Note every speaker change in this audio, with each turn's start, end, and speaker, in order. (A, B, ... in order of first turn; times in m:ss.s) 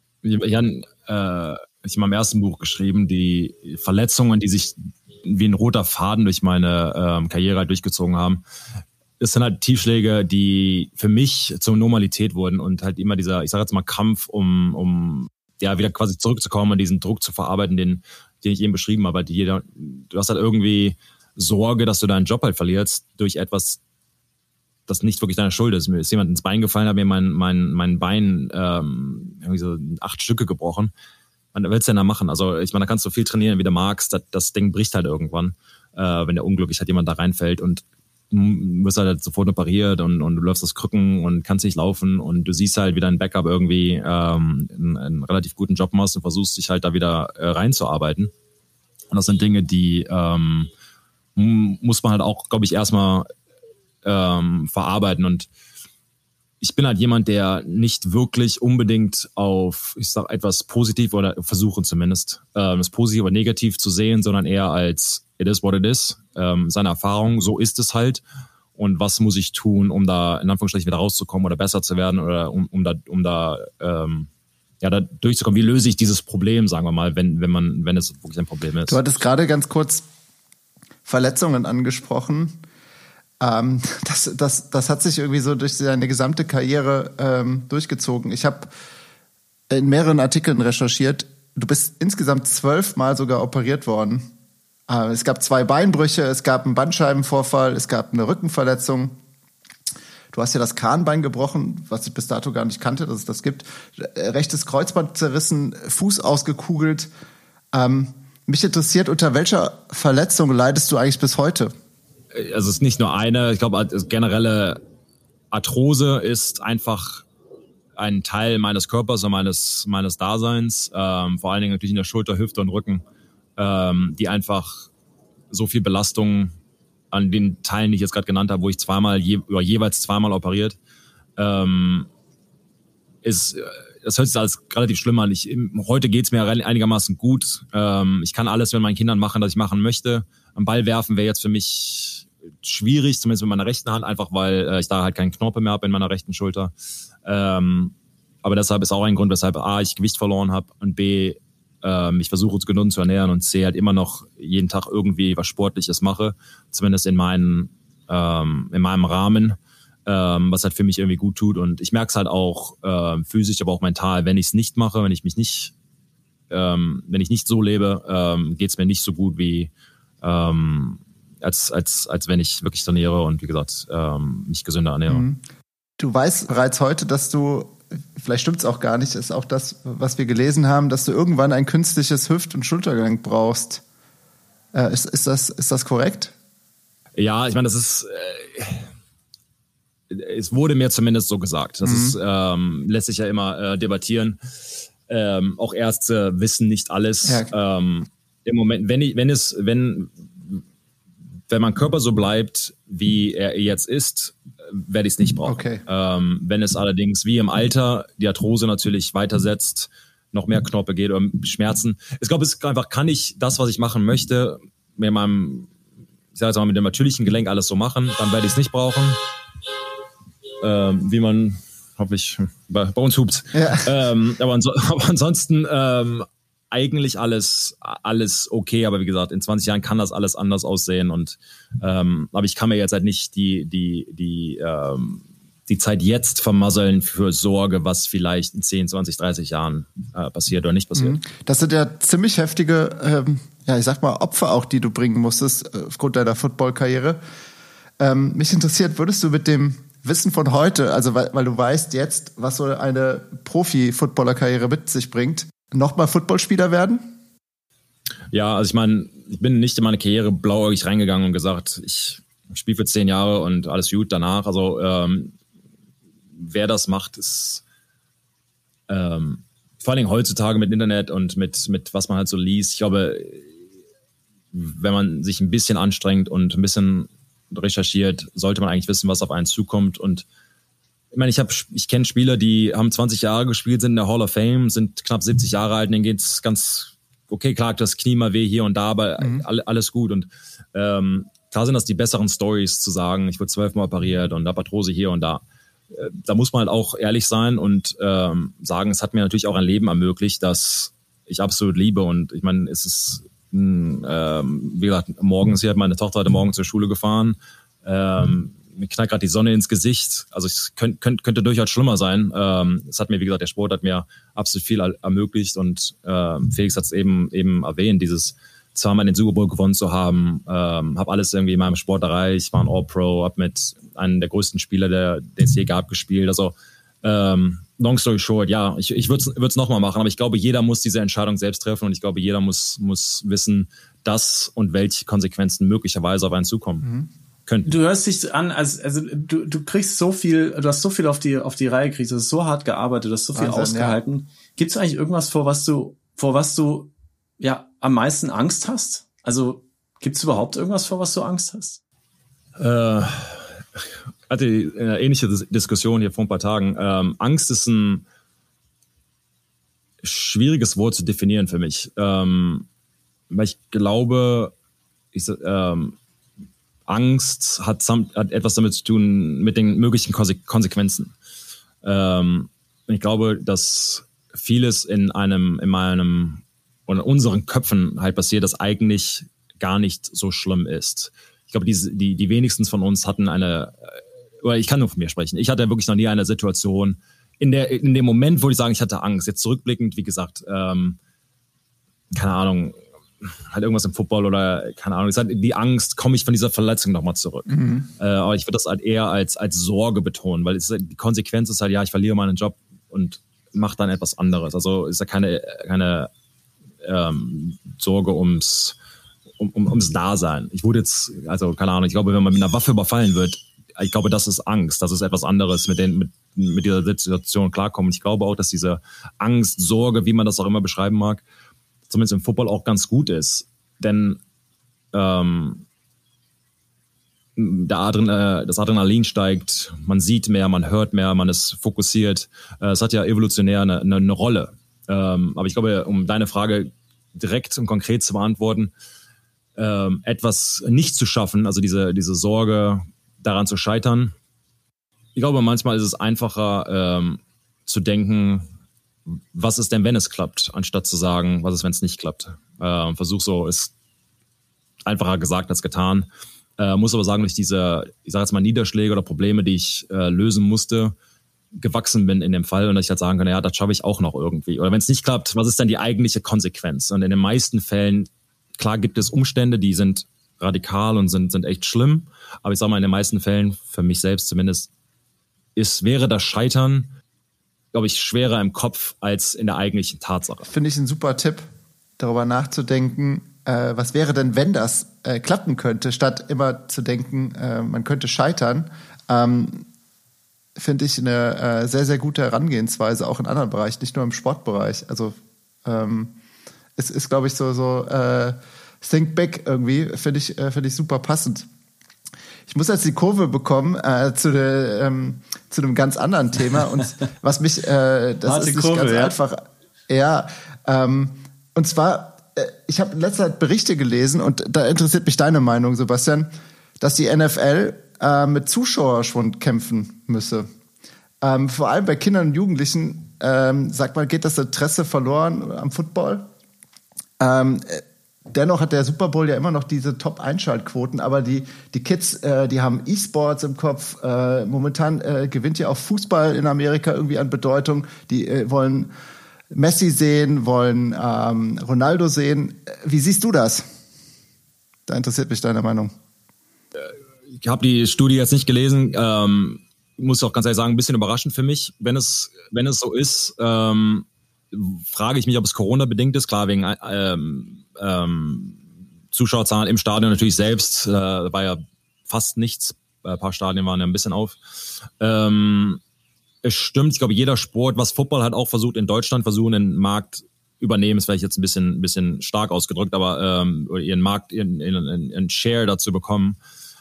0:00.2-0:08.4 A
0:09.2-0:23.8 A
0:24.9-0:30.9 A
0:31.5-0:48.3 A
0:49.1-0:50.7 A
0:51.4-0:53.3 A
0:54.0-0:55.5 A
0:56.6-1:08.2 A
1:08.7-1:14.3 A
1:14.8-1:19.0 A
1:18.9-1:20.0 B
1:21.0-1:22.6 B
1:23.4-1:28.7 B
1:29.7-1:34.3 B
1:34.9-1:39.2 B
1:40.3-1:47.1 B
1:47.7-1:51.7 B
1:52.3-1:54.8 A
1:55.5-1:57.2 A
1:58.0-2:03.0 A
2:03.6-2:04.9 A
2:05.5-2:06.5 A
2:07.1-2:10.8 A
2:11.4-2:12.1 A
2:13.2-2:26.7 A
2:27.2-2:45.7 A
2:46.5-2:49.7 A
2:50.2-2:55.2 A
2:55.1-2:55.4 B
2:56.0-3:03.8 B
3:04.7-3:06.3 B
3:07.2-3:08.9 A
3:10.1-3:14.4 A
3:11.8-3:12.2 B
3:15.1-3:20.6 A
3:17.2-3:17.5 B
3:21.5-3:35.7 A
3:25.4-3:25.8 B
3:36.3-3:39.2 A
3:40.6-4:01.2 A
3:43.5-3:43.9 B
4:00.9-4:07.2 B
4:08.0-4:17.1 B
4:18.3-4:25.3 A
4:26.4-4:27.6 A
4:28.9-4:33.5 A
4:34.5-4:40.2 A
4:41.1-5:36.8 A
4:49.2-4:49.4 B
5:36.8-5:37.1 B
5:37.5-5:37.7 A
5:37.6-5:51.8 C
5:43.4-5:44.0 B
5:52.6-5:58.0 A
6:00.0-6:02.7 A
6:03.3-6:04.5 A
6:05.1-6:06.0 A
6:06.9-6:11.1 A
6:11.8-6:31.0 A
6:32.1-6:46.1 A
6:37.5-6:37.9 B
6:46.8-6:48.8 A
6:49.4-7:01.2 A
7:01.9-7:04.2 A
7:04.9-7:05.6 A
7:07.4-7:18.7 A
7:19.6-7:24.1 A
7:25.1-7:28.4 A
7:29.3-7:33.7 A
7:34.8-7:36.1 A
7:36.6-7:40.9 A
7:41.5-7:54.7 A
7:55.6-7:56.9 A
7:57.7-8:00.5 A
8:00.5-8:01.4 B
8:02.0-8:09.6 B
8:10.6-8:16.1 B
8:16.8-8:21.5 B
8:22.5-8:40.4 B
8:28.2-8:29.2 C
8:41.2-8:46.3 B
8:47.2-8:58.9 B
8:59.5-9:03.6 B
9:04.9-9:05.9 B
9:06.8-9:18.6 A
9:19.1-9:25.8 A
9:26.4-9:36.4 A